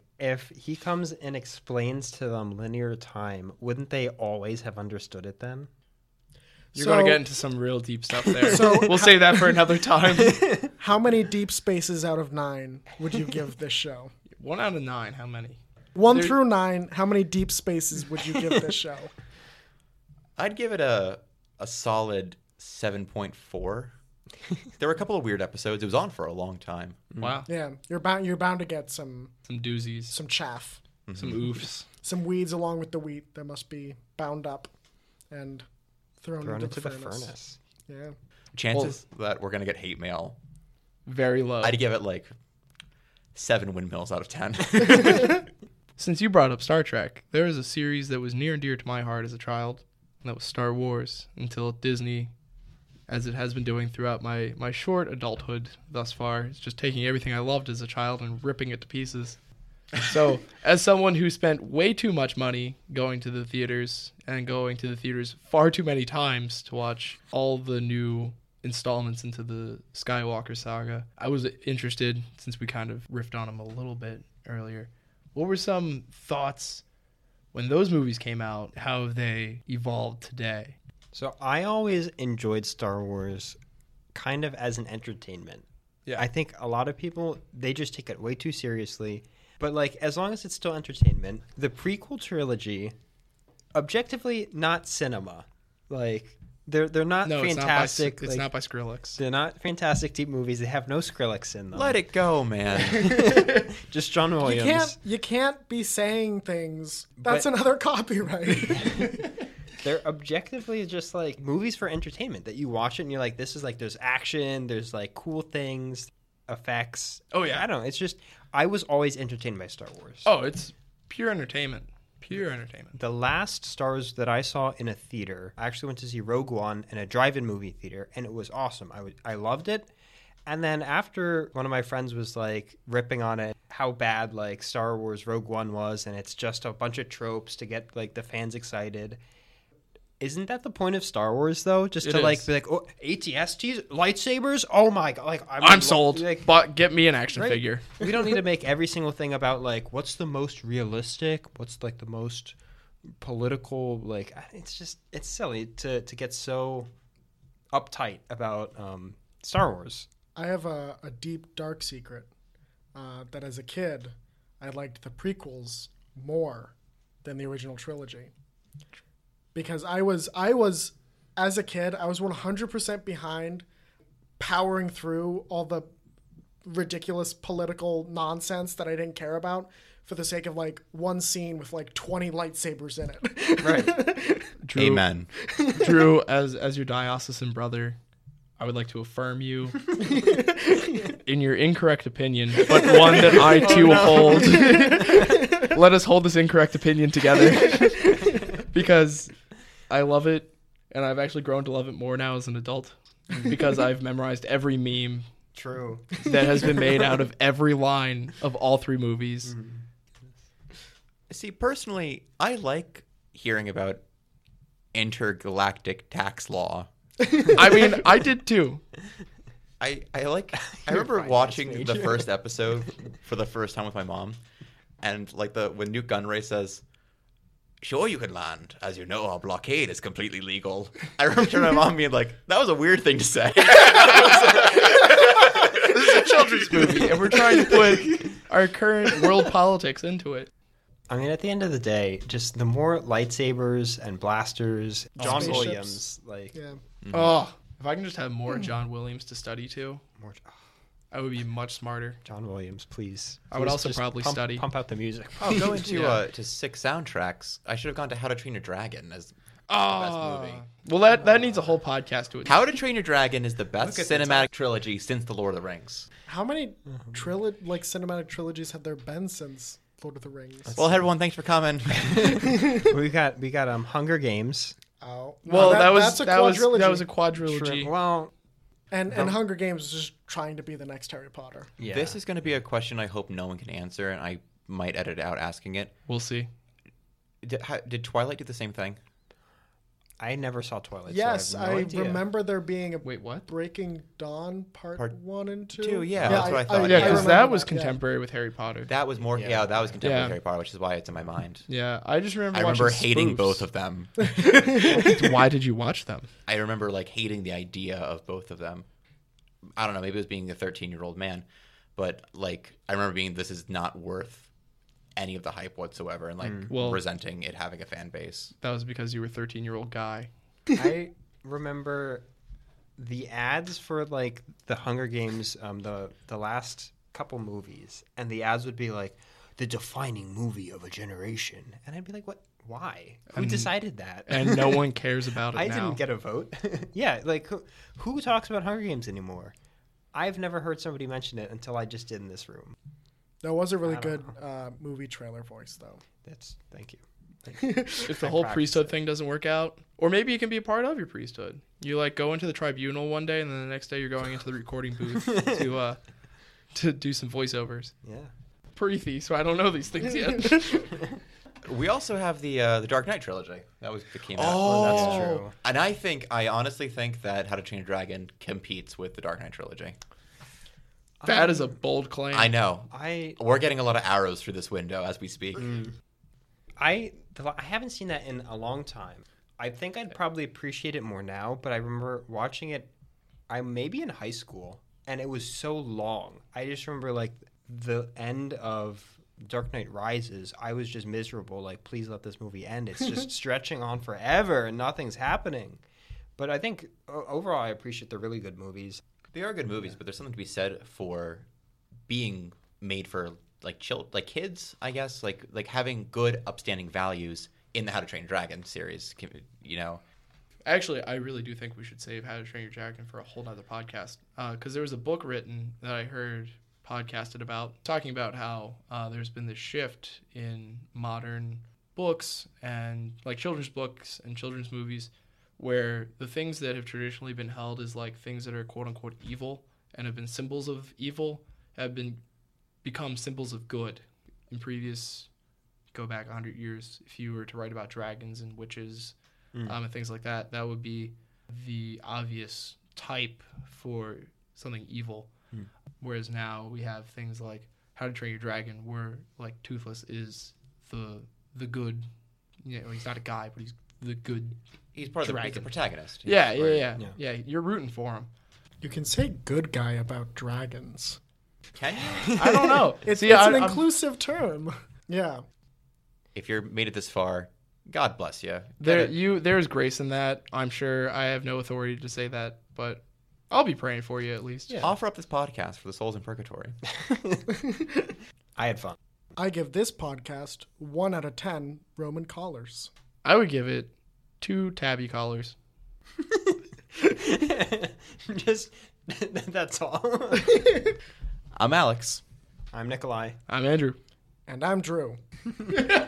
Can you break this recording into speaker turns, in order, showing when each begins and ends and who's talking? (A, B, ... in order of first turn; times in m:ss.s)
0:00.2-0:05.7 A
0:06.7-0:07.2 B
0:06.8-0:10.7 C
0:08.4-0:08.7 A
0:08.5-0:09.5 B
0:10.2-0:10.7 A
0:10.8-0:14.1 B
0:14.4-0:15.6 C
0:16.0-0:19.1 B
0:16.1-0:16.4 C
0:20.4-0:23.9 D
0:24.8-0:27.0 D
0:27.1-0:27.4 A
0:27.2-0:27.5 C
0:27.5-0:29.3 B
0:29.5-0:30.1 C
0:30.1-0:30.8 B
0:31.1-0:31.5 D
0:31.2-0:31.9 C
0:32.0-0:34.7 B
0:35.3-0:35.7 B
0:36.2-0:37.3 B
0:36.4-0:37.6 A
0:37.9-0:38.1 B
0:38.6-0:40.4 D
0:41.1-0:41.8 C
0:41.6-0:42.3 D
0:43.3-0:45.4 D
0:45.0-0:45.3 C
0:46.0-0:52.3 C
0:53.1-0:59.4 C
1:00.0-1:16.8 C
1:17.5-1:20.8 C
1:21.1-1:23.6 A
1:24.1-1:33.0 A
1:33.7-1:38.5 A
1:37.2-1:39.2 C
1:39.2-1:42.0 A
1:41.7-1:43.3 D
1:42.8-1:45.0 A
1:44.4-1:49.3 B
1:47.2-1:47.5 A
1:49.8-2:00.3 A
1:57.3-1:57.6 C
2:00.2-2:03.0 C
2:03.0-2:09.9 A
2:10.5-2:19.2 A
2:20.2-2:26.6 A
2:22.0-2:22.5 C
2:25.6-2:28.0 C
2:27.4-2:32.6 A
2:33.2-2:36.9 A
2:37.7-2:40.1 A
2:40.4-2:42.3 B
2:43.0-2:48.3 B
2:49.6-2:53.7 B
2:54.4-2:55.9 B
2:56.6-3:04.5 B
3:03.6-3:04.0 A
3:04.6-3:05.1 C
3:04.8-3:05.3 D
3:05.5-3:06.0 B
3:05.6-3:08.0 C
3:08.6-3:10.0 C
3:10.0-3:11.1 B
3:11.2-3:19.4 C
3:13.1-3:15.0 A
3:13.2-3:15.7 B
3:17.6-3:18.3 B
3:19.9-3:25.2 C
3:25.6-3:27.0 A
3:26.2-3:29.5 C
3:29.5-3:29.8 A
3:31.3-3:34.0 D
3:34.9-3:36.9 D
3:37.5-3:38.8 C
3:39.8-3:44.4 D
3:40.7-3:42.3 A
3:45.0-3:46.8 D
3:47.8-3:57.0 D
3:55.7-4:00.5 C
4:01.1-4:06.6 A
4:05.2-4:06.0 B
4:05.2-4:05.7 C
4:06.5-4:06.8 B
4:07.0-4:07.4 D
4:07.1-4:10.0 C
4:10.2-4:10.6 A
4:11.1-4:12.2 C
4:12.2-4:16.1 A
4:13.5-4:14.6 C
4:15.4-4:20.6 D
4:15.9-4:16.2 C
4:19.7-4:22.6 C
4:21.2-4:21.7 A
4:22.4-4:26.1 D
4:23.8-4:24.5 A
4:26.3-4:30.8 B
4:26.9-4:27.2 A
4:30.7-4:30.9 A
4:30.8-4:32.4 D
4:32.1-4:34.8 A
4:32.4-4:32.8 B
4:35.0-4:37.1 B
4:35.5-4:37.9 C
4:35.5-4:35.8 A
4:37.4-4:38.3 A
4:38.9-4:41.7 B
4:41.8-4:42.2 A
4:41.9-4:45.9 D
4:46.1-4:46.5 C
4:47.4-4:49.0 D
4:50.2-4:52.2 A
4:51.1-4:58.0 B
4:53.0-4:53.5 C
4:55.8-4:57.4 D
4:56.2-4:57.2 A
4:56.8-4:58.9 C
4:58.9-5:01.7 D
4:59.3-5:00.0 A
5:00.0-5:00.4 C
5:01.7-5:03.6 C
5:02.5-5:04.6 D
5:04.3-5:05.1 B
5:04.8-5:06.3 C
5:06.5-5:08.9 D
5:09.8-5:11.4 D
5:12.0-5:14.5 D
5:15.2-5:18.5 D
5:16.4-5:16.7 A
5:16.7-5:17.0 C
5:18.6-5:20.3 C
5:20.8-5:22.2 A
5:23.0-5:34.8 A
5:33.3-5:33.8 C
5:34.3-5:36.0 C
5:35.5-5:39.5 A
5:40.1-5:42.8 A
5:43.4-5:46.0 B
5:43.8-5:44.3 A
5:46.2-5:48.9 A
5:47.6-5:48.1 B
5:48.0-5:56.0 C
5:56.7-5:57.9 C
5:58.0-5:58.3 A
5:58.8-6:01.1 C
6:01.6-6:10.0 D
6:04.4-6:05.5 A
6:04.9-6:05.2 C
6:11.2-6:11.8 A
6:11.2-6:12.5 C
6:12.3-6:15.7 D
6:12.9-6:13.4 A
6:15.6-6:15.9 A
6:16.8-6:22.9 A
6:23.5-6:35.8 A
6:36.4-6:39.0 A
6:39.3-6:41.5 D
6:42.1-6:50.0 D
6:50.7-7:12.2 C
7:12.8-7:15.3 C
7:15.9-7:25.3 C
7:26.0-7:32.1 C
7:32.6-7:34.6 C
7:35.0-7:36.9 D
7:35.2-7:35.7 C
7:36.2-7:38.3 C
7:38.8-7:41.2 B
7:41.8-7:42.4 D
7:42.2-7:42.9 A
7:42.4-7:43.8 C
7:43.0-7:45.4 B
7:46.4-7:49.1 D
7:48.8-7:54.8 C
7:54.8-7:56.8 D
7:57.0-7:57.4 A
7:57.7-7:58.0 B
7:58.6-7:59.0 A
7:59.4-8:02.9 B
8:03.2-8:05.6 C
8:06.2-8:10.7 A
8:11.6-8:12.2 D
8:12.7-8:13.4 A
8:13.5-8:14.0 C
8:14.5-8:15.2 B